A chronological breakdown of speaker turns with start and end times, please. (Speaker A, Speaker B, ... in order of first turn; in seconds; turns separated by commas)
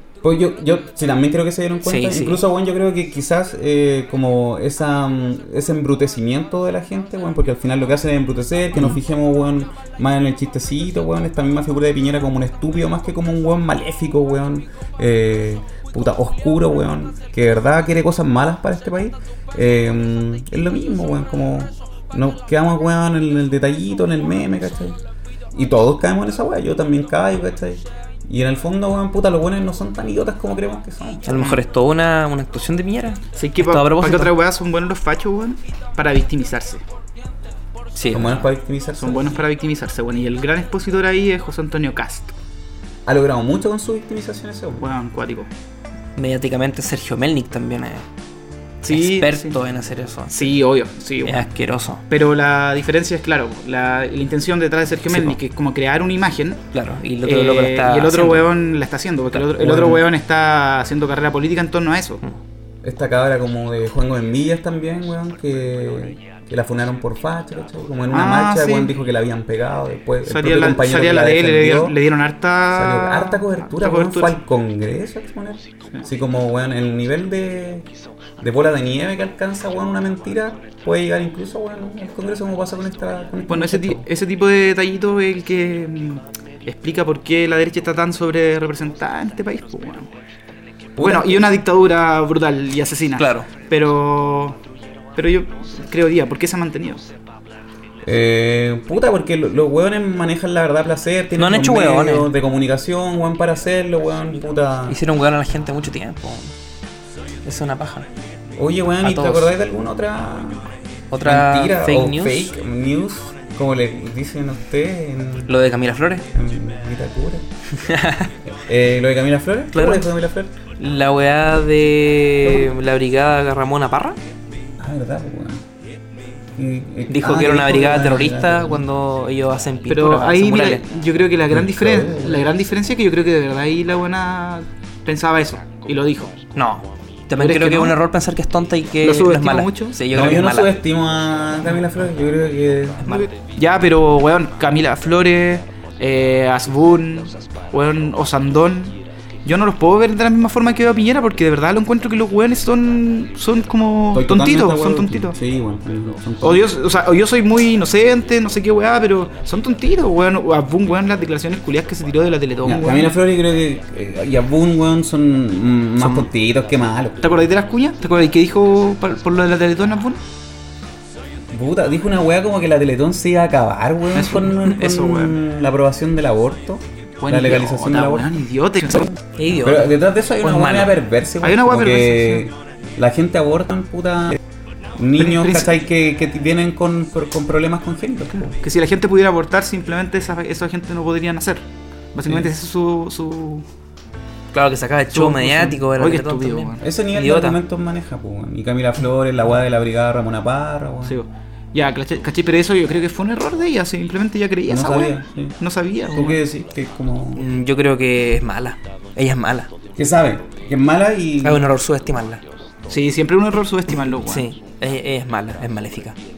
Speaker A: 0.2-25.0, Speaker B: 1.8-2.4, Speaker A: 25.5-31.3, Speaker B: 31.2-34.4, Speaker C: 31.3-31.6, Speaker C: 33.4-36.8, Speaker B: 37.9-38.4, Speaker A: 38.1-39.4, Speaker C: 39.0-42.3, Speaker A: 43.0-44.9, Speaker C: 44.8-45.5, Speaker B: 46.1-48.0, Speaker B: 48.8-50.6, Speaker C: 48.8-49.6, Speaker C: 50.3-51.5, Speaker B: 51.2-52.0, Speaker C: 52.1-56.6, Speaker B: 55.1-55.4, Speaker B: 56.7-58.5, Speaker C: 57.2-62.2, Speaker A: 59.5-60.0, Speaker A: 62.8-72.0, Speaker C: 68.1-68.9, Speaker C: 70.2-74.4, Speaker A: 72.7-77.9, Speaker A: 78.4-84.0, Speaker C: 83.5-90.1, Speaker A: 91.0-91.5, Speaker C: 91.0-94.6, Speaker B: 93.2-93.5, Speaker C: 95.1-97.1, Speaker A: 98.0-105.0, Speaker B: 101.3-102.3, Speaker B: 104.9-106.5, Speaker B: 107.4-108.1, Speaker A: 108.6-110.7, Speaker B: 109.0-109.5, Speaker B: 111.1-112.5, Speaker A: 111.2-115.5, Speaker B: 115.5-116.2, Speaker A: 116.3-117.5, Speaker B: 117.7-118.3, Speaker A: 118.5-120.5, Speaker B: 119.7-120.0, Speaker B: 120.8-124.2, Speaker A: 124.8-125.6, Speaker A: 126.6-128.8, Speaker B: 127.1-130.8, Speaker C: 129.9-136.3, Speaker A: 131.5-132.4, Speaker B: 136.5-140.8, Speaker C: 137.4-137.9, Speaker C: 139.0-140.0, Speaker A: 140.1-143.0, Speaker B: 143.0-143.3, Speaker C: 143.0-155.3, Speaker A: 154.1-156.6, Speaker C: 156.4-163.1, Speaker A: 162.6-167.4, Speaker B: 166.0-166.3, Speaker C: 167.2-170.2, Speaker A: 171.5-178.3, Speaker C: 174.1-175.4, Speaker C: 177.2-179.1, Speaker B: 179.3-181.0, Speaker A: 179.6-184.4, Speaker C: 181.4-182.4, Speaker A: 185.0-188.5, Speaker C: 185.2-185.8, Speaker C: 188.3-193.6, Speaker B: 194.5-197.6, Speaker C: 195.1-196.8, Speaker A: 196.8-201.2, Speaker C: 201.1-206.4, Speaker A: 204.7-205.6, Speaker A: 206.1-207.4, Speaker B: 207.3-209.7, Speaker A: 209.9-211.7, Speaker B: 211.4-212.4, Speaker C: 212.9-214.5, Speaker B: 214.2-216.2